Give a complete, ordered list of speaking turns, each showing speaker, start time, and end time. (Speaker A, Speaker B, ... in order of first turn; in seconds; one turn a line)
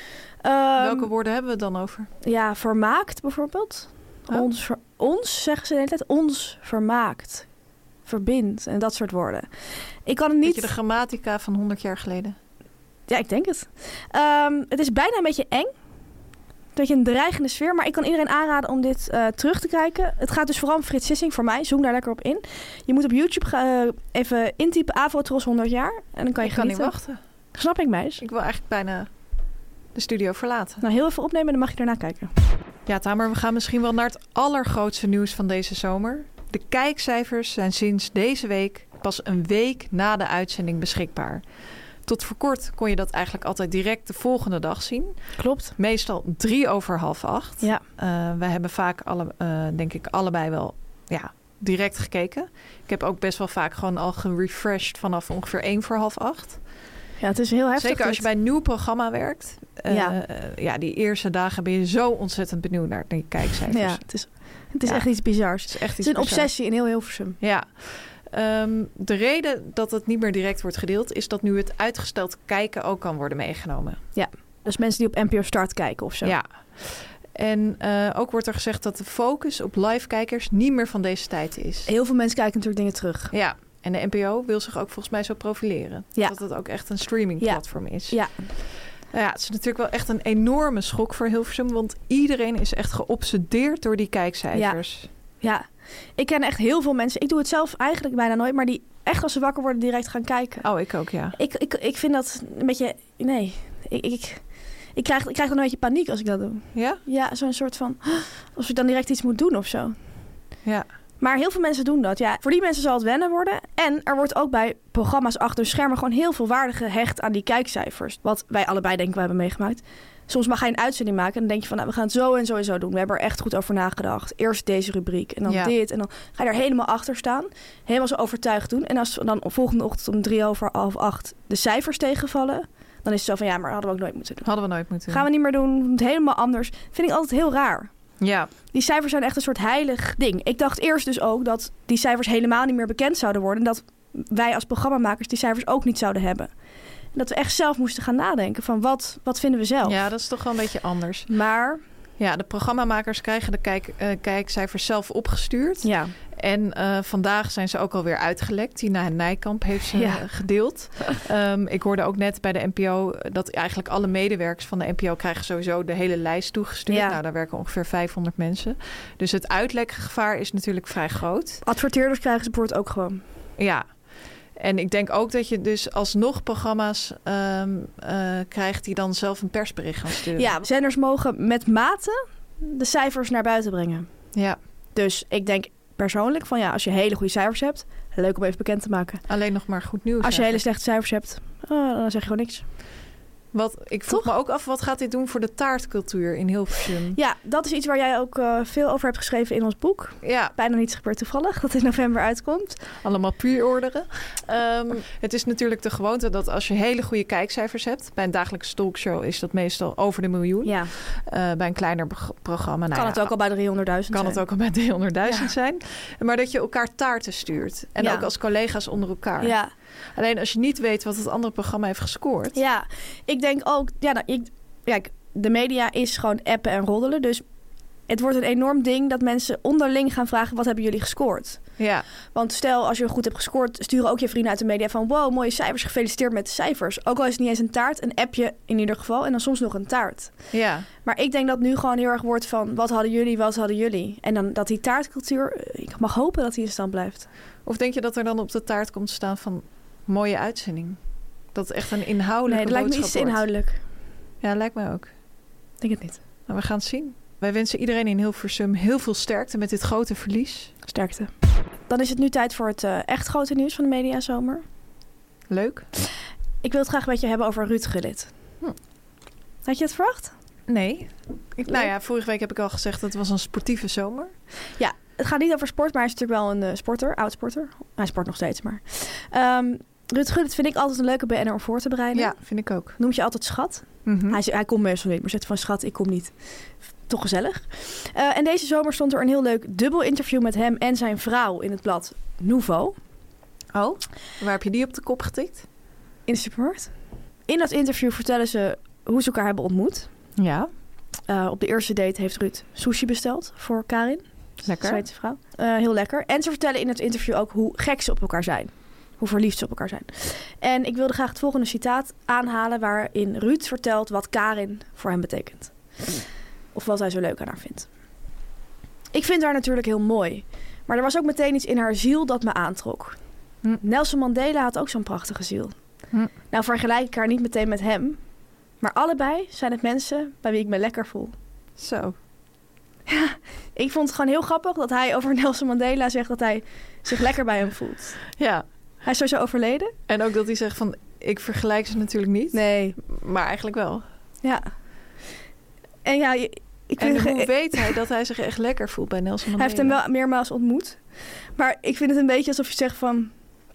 Speaker A: 0.4-1.1
Speaker B: 0.8-2.1
Speaker A: 2.2-7.5
Speaker A: 8.1-9.5
Speaker A: 10.1-10.7
Speaker B: 10.4-12.3
Speaker A: 13.1-15.7
Speaker A: 16.7-26.9
Speaker B: 26.4-27.2
Speaker A: 27.5-28.2
Speaker B: 28.2-29.1
Speaker B: 29.9-30.8
Speaker A: 30.8-32.3
Speaker B: 32.9-41.4
Speaker B: 42.0-45.1
Speaker A: 45.4-45.7
Speaker B: 45.8-56.6
Speaker A: 57.2-58.2
Speaker B: 57.8-64.0
Speaker A: 59.9-60.2
Speaker A: 63.7-67.4
Speaker B: 64.8-66.5
Speaker B: 67.4-74.0
Speaker A: 74.1-76.3
Speaker B: 76.2-81.9
Speaker A: 81.9-83.3
Speaker B: 83.3-88.2
Speaker A: 87.4-88.3
Speaker B: 89.1-95.1
Speaker A: 94.5-94.8
Speaker A: 95.4-100.7
Speaker B: 100.6-101.3
Speaker A: 101.3-104.4
Speaker A: 104.9-110.0
Speaker B: 106.7-107.0
Speaker A: 111.2-134.5
Speaker B: 125.5-125.7
Speaker B: 134.4-135.2
Speaker A: 135.1-137.9
Speaker B: 138.2-138.5
Speaker A: 138.7-146.5
Speaker A: 147.1-150.0
Speaker B: 149.8-151.3
Speaker A: 151.3-151.8
Speaker B: 152.2-171.6
Speaker A: 155.8-156.1
Speaker A: 159.9-160.3
Speaker A: 166.9-167.2
Speaker A: 171.6-173.2
Speaker B: 173.6-173.8
Speaker B: 174.6-180.5
Speaker A: 180.4-184.1
Speaker A: 184.9-189.2
Speaker B: 189.3-190.6
Speaker A: 190.2-192.7
Speaker B: 193.5-197.2
Speaker A: 197.1-202.8
Speaker B: 200.2-200.5
Speaker B: 203.0-213.3
Speaker A: 210.6-210.9
Speaker A: 212.9-214.4
Speaker B: 214.1-219.6
Speaker A: 218.0-218.2
Speaker A: 219.4-219.7
Speaker B: 220.1-222.6
Speaker A: 222.5-227.4
Speaker A: 228.1-231.6
Speaker B: 231.8-232.0
Speaker A: 232.3-240.3
Speaker B: 240.5-240.9
Speaker A: 241.0-247.3
Speaker B: 247.6-251.0
Speaker B: 251.5-253.5
Speaker A: 252.4-253.8
Speaker B: 254.4-255.1
Speaker A: 255.8-256.2
Speaker B: 256.5-260.7
Speaker A: 260.9-261.3
Speaker A: 261.9-264.6
Speaker B: 265.5-265.9
Speaker A: 266.6-268.3
Speaker A: 269.6-270.3
Speaker B: 270.7-274.3
Speaker A: 274.8-286.3
Speaker B: 282.1-283.0
Speaker B: 284.0-284.4
Speaker A: 287.1-292.9
Speaker B: 293.7-295.6
Speaker A: 296.3-296.9
Speaker A: 297.5-300.1
Speaker B: 300.4-300.7
Speaker A: 301.3-316.2
Speaker B: 304.6-305.0
Speaker A: 316.7-317.9
Speaker A: 319.1-323.2
Speaker A: 323.8-325.7
Speaker A: 326.5-328.2
Speaker A: 328.8-331.3
Speaker B: 331.8-332.1
Speaker A: 333.1-338.2
Speaker B: 338.3-338.6
Speaker A: 339.0-339.9
Speaker B: 340.1-344.0
Speaker A: 342.5-343.0
Speaker A: 344.4-344.7
Speaker A: 346.0-347.9
Speaker B: 347.0-350.0
Speaker A: 349.6-351.0
Speaker A: 351.5-353.3